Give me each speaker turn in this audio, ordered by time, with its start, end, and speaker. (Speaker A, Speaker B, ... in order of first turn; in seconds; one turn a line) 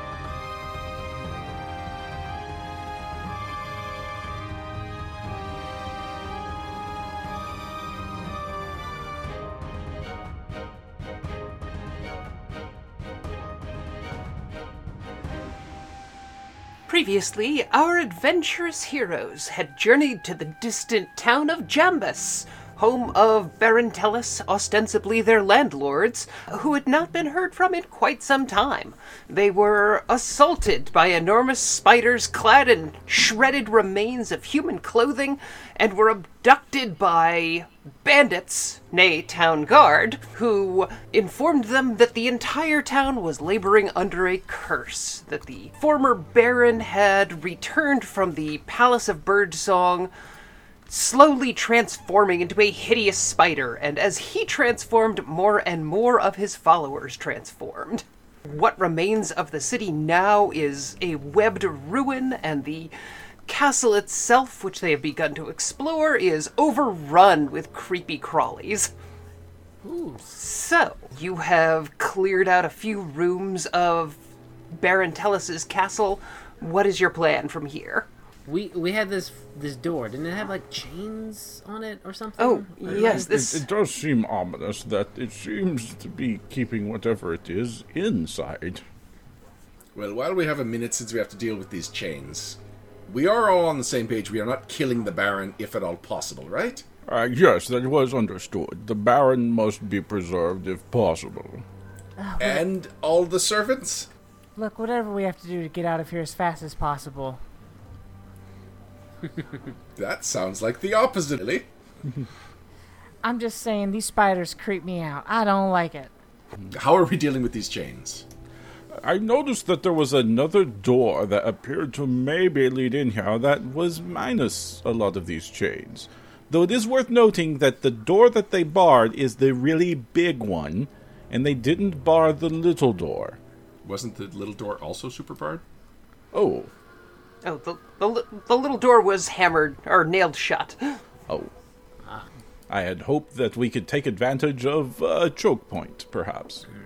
Speaker A: 16.9-50.1
Speaker A: 50.9-62.9
Speaker A: 63.5-68.9
Speaker B: 69.8-70.2
Speaker A: 70.3-74.2
Speaker A: 74.8-78.1
Speaker B: 78.5-83.4
Speaker A: 82.4-83.7
Speaker C: 83.0-88.8
Speaker D: 90.0-96.8
Speaker C: 97.1-101.7
Speaker E: 102.2-102.7
Speaker D: 102.4-104.1
Speaker E: 104.6-107.4
Speaker D: 110.0-111.7
Speaker E: 113.2-116.1
Speaker D: 116.7-118.2
Speaker C: 119.0-133.4
Speaker D: 133.8-135.6
Speaker C: 136.3-136.7
Speaker A: 137.4-141.0
Speaker C: 142.7-146.7